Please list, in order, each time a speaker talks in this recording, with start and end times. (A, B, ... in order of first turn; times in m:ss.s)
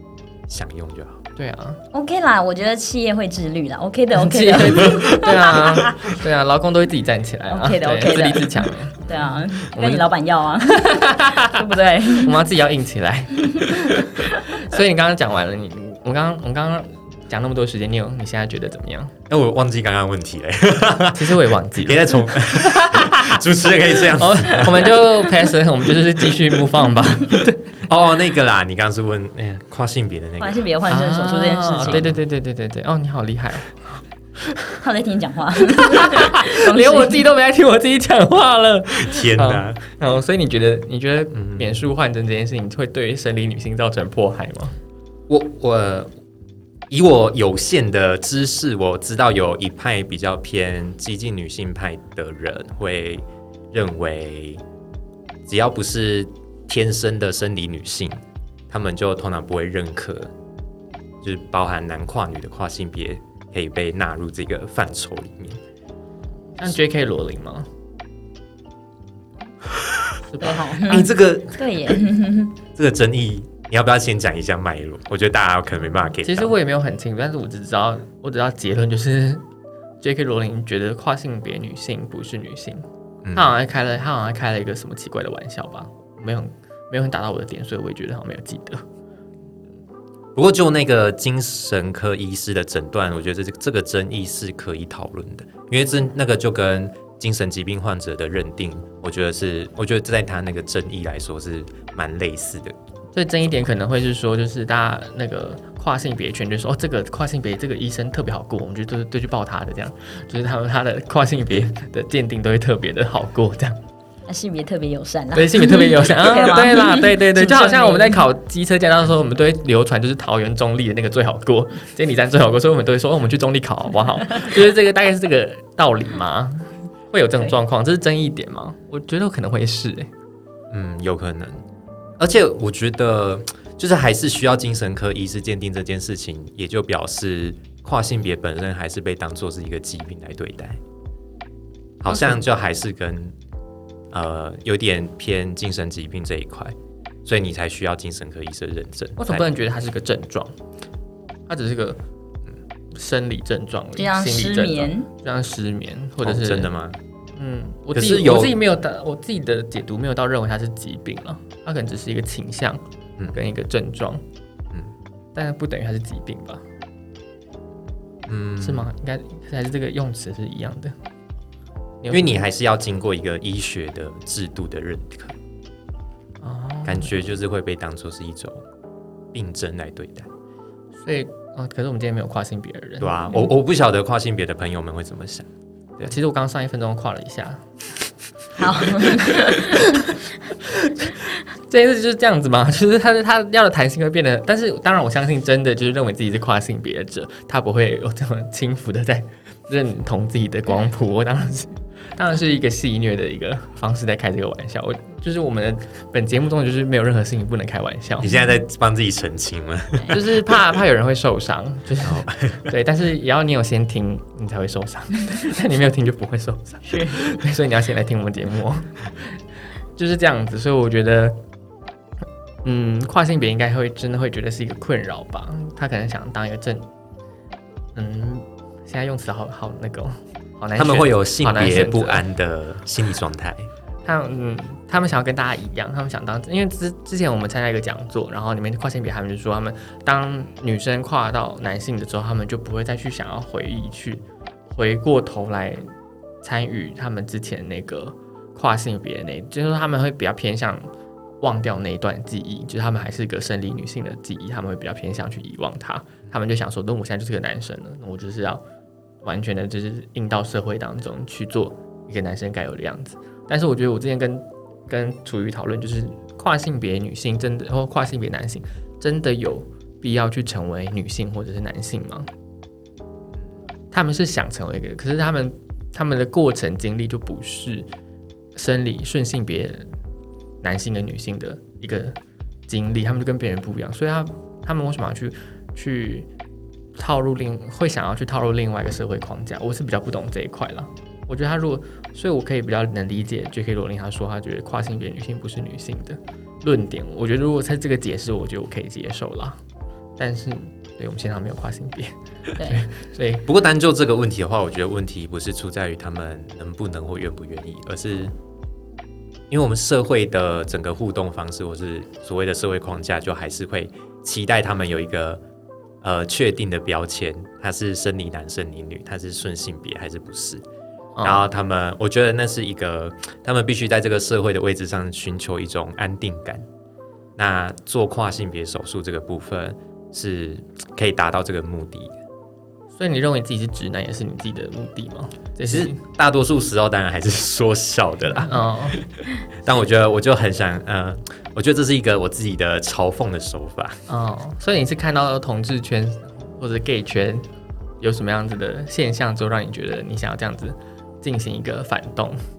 0:00.5-0:01.2 A
0:01.4-0:01.8 B
0:01.9-0:06.1 C
0:04.1-0:10.0 B
0:07.5-0:12.4 C
0:10.6-0:19.1 B
0:13.5-0:14.0 C
0:19.3-0:25.0 A
0:21.1-0:23.4 B
0:24.0-0:27.8 B
0:27.9-0:30.6 A
0:30.4-0:32.0 C
0:30.9-0:34.8 B
0:31.8-0:32.2 A
0:34.8-0:37.3 C
0:35.6-0:44.7 B
0:38.9-0:39.8 A
0:41.3-0:41.8 A
0:45.3-0:46.1 A
0:46.9-0:54.6 A
0:55.4-1:00.3 A
1:01.2-1:05.6 A
1:06.6-1:07.7 B
1:09.7-1:10.2 A
1:10.3-1:10.6 B
1:10.4-1:12.5 C
1:10.8-1:12.0 A
1:12.7-1:16.5 A
1:16.2-1:19.4 B
1:20.0-1:28.8 B
1:23.2-1:23.5 A
1:30.3-1:42.8 A
1:43.1-1:53.8 B
1:54.3-1:58.2 C
1:55.3-2:10.1 B
2:10.7-2:11.6 A
2:12.2-2:20.8 A
2:22.0-2:23.3 A
2:22.1-2:22.4 B
2:24.1-2:29.4 A
2:29.2-2:30.5 B
2:31.5-2:32.0 B
2:32.9-2:36.7 B
2:34.0-2:35.1 C
2:36.2-2:37.0 A
2:37.4-2:42.8 B
2:37.9-2:38.6 A
2:43.3-2:44.2 B
2:45.3-2:46.6 B
2:48.2-2:48.9 A
2:48.6-2:50.9 B
2:52.0-2:52.4 B
2:52.1-2:55.4 A
2:56.4-2:57.2 B
2:56.8-2:58.6 A
2:59.3-3:00.3 A
3:01.0-3:03.2 B
3:03.0-3:06.1 A
3:06.0-3:07.6 B
3:08.6-3:10.0 C
3:08.7-3:28.3 B
3:28.2-3:30.2 A
3:30.1-3:39.0 B
3:32.0-3:32.7 A
3:36.9-3:37.2 C
3:40.0-3:41.4 B
3:42.6-3:46.8 B
3:47.9-3:52.2 B
3:50.8-3:53.7 A
3:54.0-4:05.8 B
4:06.4-4:10.8 B
4:11.4-4:18.6 B
4:19.2-4:32.3 B
4:33.9-4:37.9 B
4:38.6-4:39.9 B
4:40.6-4:42.2 B
4:42.7-4:46.3 B
4:47.0-4:59.6 B
5:00.2-5:03.4 B
5:02.6-5:02.8 C
5:03.4-5:08.3 A
5:09.5-5:15.4 A
5:16.0-5:20.6 A
5:21.2-5:21.5 B
5:21.2-5:26.6 A
5:27.4-5:32.2 A
5:32.9-5:36.0 B
5:35.6-5:44.0 A
5:38.4-5:39.0 B
5:44.1-5:47.4 B
5:48.0-5:52.4 B